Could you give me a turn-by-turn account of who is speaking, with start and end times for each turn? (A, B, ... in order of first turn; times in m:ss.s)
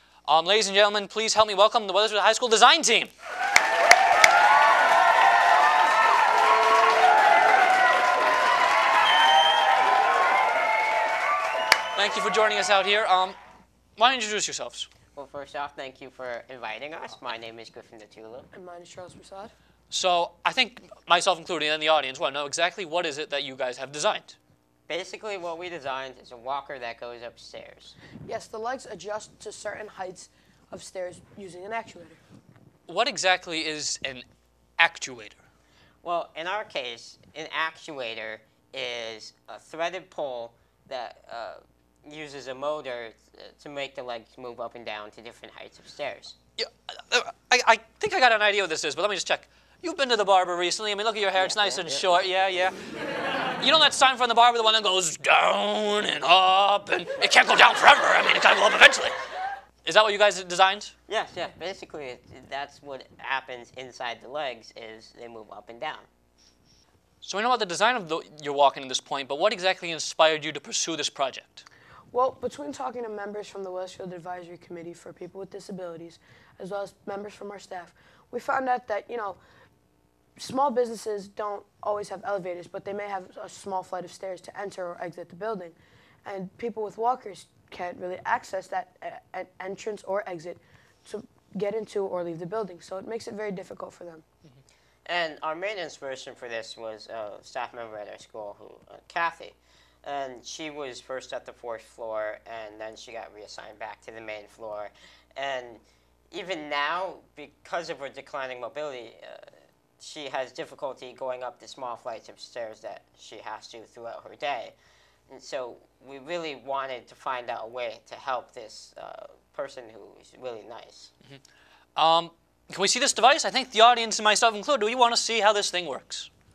0:00.3-0:03.1 A
0:12.0-0:13.4 A
0:14.0-0:14.9 A
0:15.1-0:18.5 B
0:18.5-0:19.5 C
0:19.9-0:24.4 A
0:24.9-0:28.0 B
0:28.3-0:32.2 C
0:32.9-0:34.2 A
0:34.8-0:35.4 A
0:36.0-0:46.3 B
0:46.6-0:52.7 A
0:51.4-0:52.1 B
0:53.6-0:59.1 A
0:59.8-1:00.9 A
1:01.1-1:06.1 B
1:07.2-1:11.6 A
1:12.1-1:19.4 C
1:20.4-1:34.2 C
1:35.0-1:49.4 B
1:50.0-1:54.7 B
1:55.3-2:01.1 B
2:02.0-2:06.3 A